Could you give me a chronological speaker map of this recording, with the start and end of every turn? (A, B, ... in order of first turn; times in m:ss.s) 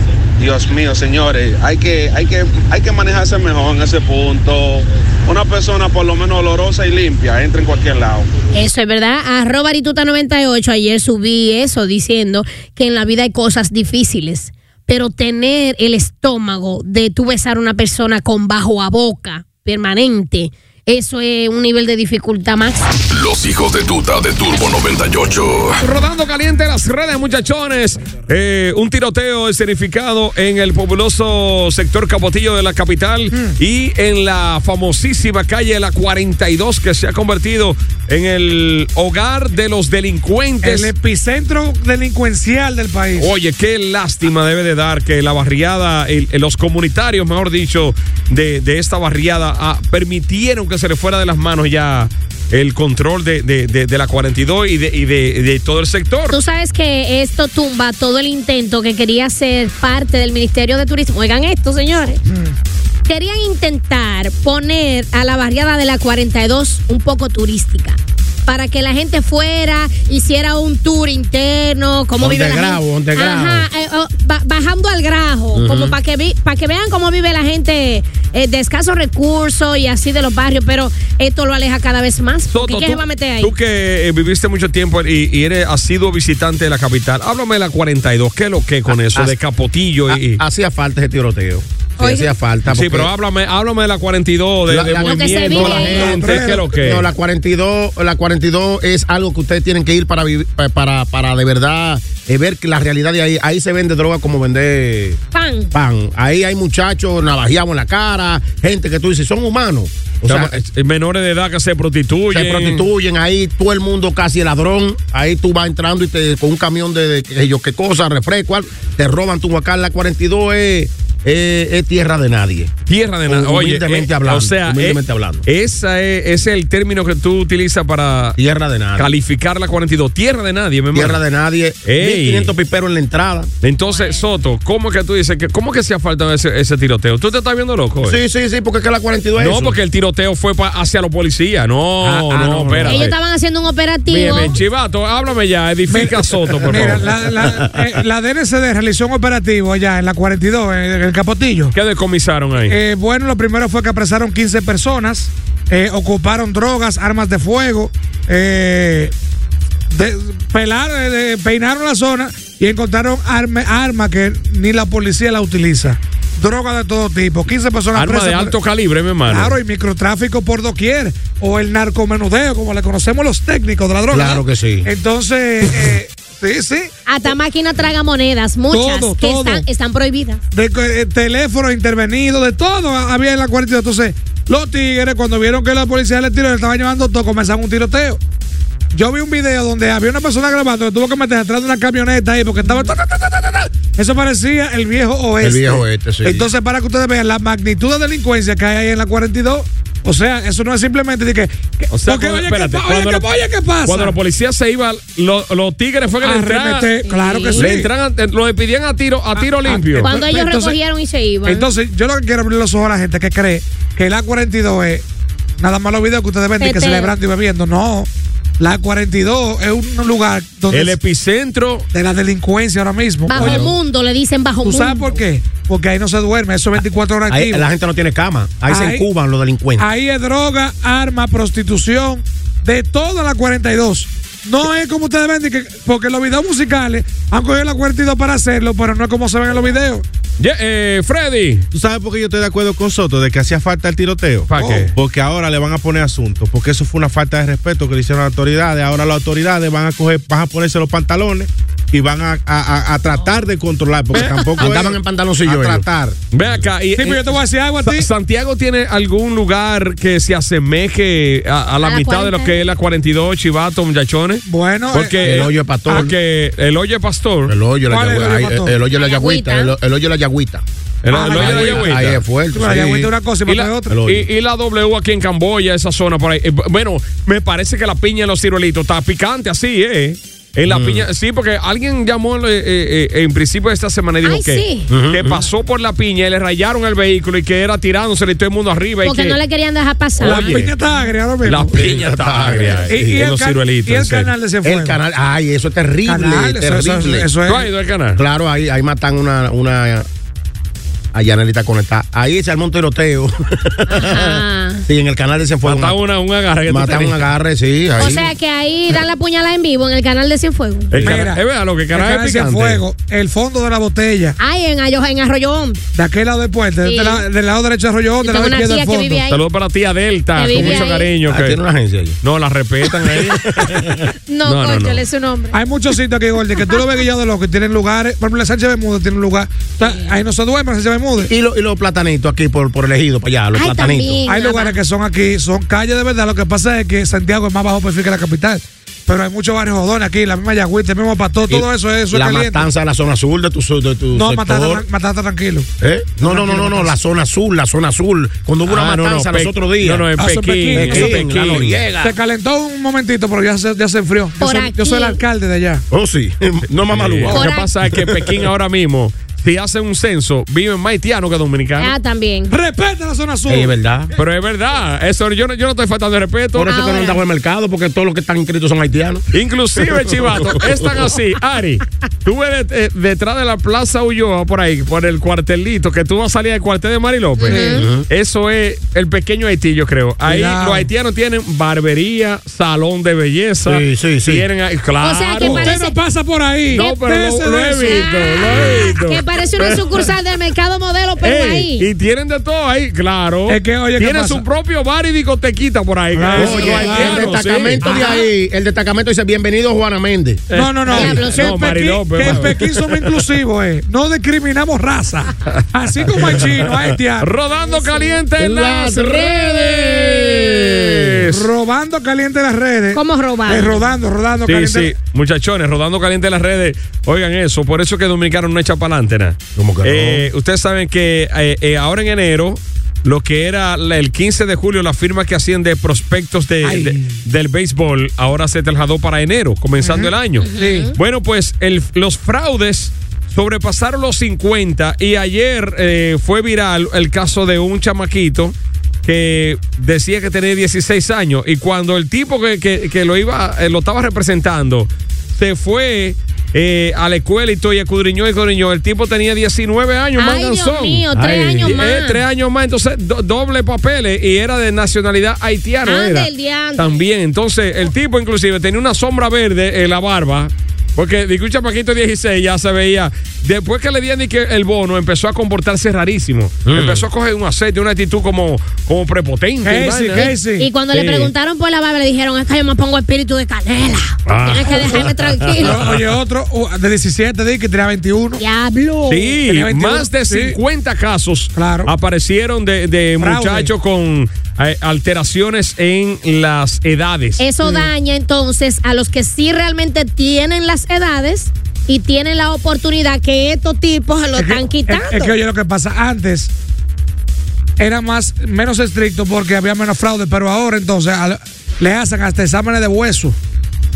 0:00.4-0:08.3 A
0:08.5-0:22.8 B
0:23.1-0:25.8 C
0:25.8-0:40.9 D
0:40.6-0:43.3 E
0:43.2-0:56.4 D
0:56.3-1:02.2 B
1:03.0-1:23.5 B
1:12.2-1:13.7 F
1:15.5-1:16.0 F
1:22.5-1:30.4 D
1:28.9-1:29.3 F
1:30.1-1:33.1 F
1:32.0-1:32.3 B
1:32.7-1:37.0 D
1:34.7-1:45.2 F
1:35.0-1:36.2 B
1:35.7-1:36.8 E
1:45.3-1:45.7 B
1:45.7-1:50.6 F
1:50.3-1:52.8 D
1:52.3-2:02.7 F
2:02.9-2:08.4 D
2:03.3-2:05.4 F
2:08.4-2:09.1 F
2:09.0-2:11.2 D
2:10.9-2:13.5 F
2:11.8-2:12.5 D
2:13.6-2:18.2 D
2:13.8-2:14.2 B
2:18.0-2:19.8 F
2:19.4-2:23.1 D
2:22.0-2:23.1 F
2:22.8-2:24.6 B
2:24.1-2:27.1 D
2:25.9-2:31.7 E
2:26.7-2:27.7 F
2:31.7-2:32.8 D
2:32.7-2:39.1 E
2:39.9-2:48.5 E
2:47.9-2:49.6 D
2:49.3-2:56.9 E
2:54.1-2:54.9 F
2:57.1-3:00.4 B
2:58.7-2:59.6 E
3:00.5-3:08.2 E
3:08.9-3:24.2 E
3:15.4-3:16.5 F
3:21.9-3:23.3 D
3:23.8-3:26.9 D
3:26.2-3:27.9 E
3:27.0-3:27.7 B
3:27.5-3:30.1 D
3:29.3-3:30.8 E
3:30.0-3:31.7 B
3:31.4-3:35.0 E
3:35.6-3:38.1 E
3:36.6-3:37.1 B
3:38.6-3:41.0 E
3:40.7-3:41.8 D
3:41.9-3:43.7 E
3:43.3-3:45.1 B
3:43.4-3:43.6 F
3:44.6-3:47.6 E
3:47.3-3:49.8 F
3:48.7-3:49.0 E
3:49.8-4:00.0 E
4:00.4-4:01.7 D
4:01.7-4:16.2 G
4:04.5-4:04.9 D
4:04.6-4:04.9 E
4:14.1-4:14.5 D
4:14.2-4:15.9 F
4:16.3-4:27.5 D
4:17.0-4:18.1 E
4:21.8-4:22.6 B
4:24.4-4:26.1 E
4:25.2-4:26.1 F
4:27.5-4:30.6 F
4:27.9-4:28.7 E
4:29.0-4:29.7 B
4:31.0-4:32.2 D
4:31.1-4:32.0 E
4:31.2-4:33.1 F
4:32.5-4:34.0 E
4:33.5-4:49.4 D
4:33.9-4:34.3 F
4:40.6-4:41.1 F
4:44.2-4:44.9 B
4:44.9-4:45.4 F
4:49.0-4:50.6 B
4:50.2-4:50.7 D
4:50.2-4:51.9 E
4:51.4-4:54.3 D
4:51.7-4:53.2 F
4:52.9-4:55.0 E
4:54.6-4:57.3 F
4:56.0-4:57.7 E
4:57.5-4:58.2 D
4:58.2-5:00.0 F
5:01.1-5:06.0 F
5:03.9-5:04.8 B
5:05.6-5:07.3 D
5:06.7-5:08.3 F
5:08.0-5:11.0 B
5:10.9-5:12.8 D
5:11.0-5:11.4 E
5:11.9-5:14.4 E
5:14.4-5:15.8 B
5:15.9-5:19.2 E
5:16.8-5:17.2 B
5:18.2-5:19.4 B
5:19.3-5:21.6 D
5:20.4-5:21.1 B
5:20.5-5:22.2 F
5:22.2-5:25.0 D
5:22.9-5:24.0 F
5:24.3-5:25.6 B
5:25.5-5:31.3 E
5:26.6-5:26.8 B
5:29.8-5:30.1 B
5:31.3-5:34.2 F
5:33.5-5:34.8 B
5:34.3-5:42.6 E
5:41.5-5:44.8 F
5:44.1-5:45.7 E
5:45.8-5:50.1 F
5:46.2-5:46.9 E
5:48.7-5:51.9 D
5:50.2-5:51.3 E
5:50.7-5:52.1 F
5:52.0-5:55.8 E
5:54.4-5:55.2 B
5:55.9-5:58.5 F
5:56.9-6:01.9 D
5:57.3-5:57.7 B
6:01.8-6:02.5 B
6:02.5-6:03.7 E
6:03.5-6:04.1 F
6:04.2-6:06.7 D
6:06.5-6:09.2 F
6:06.6-6:07.2 B
6:09.3-6:25.8 D
6:10.2-6:11.0 F
6:17.4-6:17.8 B
6:17.6-6:18.0 F
6:20.2-6:20.9 E
6:23.6-6:24.4 F
6:25.0-6:26.0 B
6:25.4-6:28.1 E
6:26.7-6:30.0 D
6:26.7-6:27.0 B
6:27.8-6:31.9 B
6:31.2-6:37.8 D
6:33.5-6:34.4 E
6:36.1-6:37.4 E
6:36.3-6:40.4 F
6:37.8-6:38.2 B
6:40.5-6:43.2 D
6:40.5-6:47.3 E
6:40.9-6:41.6 B
6:45.5-6:46.6 D
6:47.2-6:51.5 D
6:47.6-6:48.2 B
6:48.4-6:51.0 F
6:51.3-6:54.9 E
6:52.9-6:53.8 B
6:54.4-7:50.3 D
6:59.6-7:00.3 F
7:06.6-7:07.2 E
7:09.8-7:10.9 E
7:10.4-7:10.9 B
7:30.2-7:32.2 B
7:35.8-7:37.0 B
7:46.6-7:47.1 F
7:49.6-7:50.7 E
7:50.1-7:55.8 B
7:50.9-7:51.3 D
7:54.2-7:56.0 D
7:55.6-7:58.4 E
7:58.4-7:59.4 B
7:59.1-8:07.4 D
7:59.5-8:00.6 E
8:01.5-8:01.9 E
8:03.2-8:03.7 E
8:07.4-8:15.4 B
8:07.6-8:07.9 E
8:14.4-8:16.5 E
8:17.8-8:23.4 E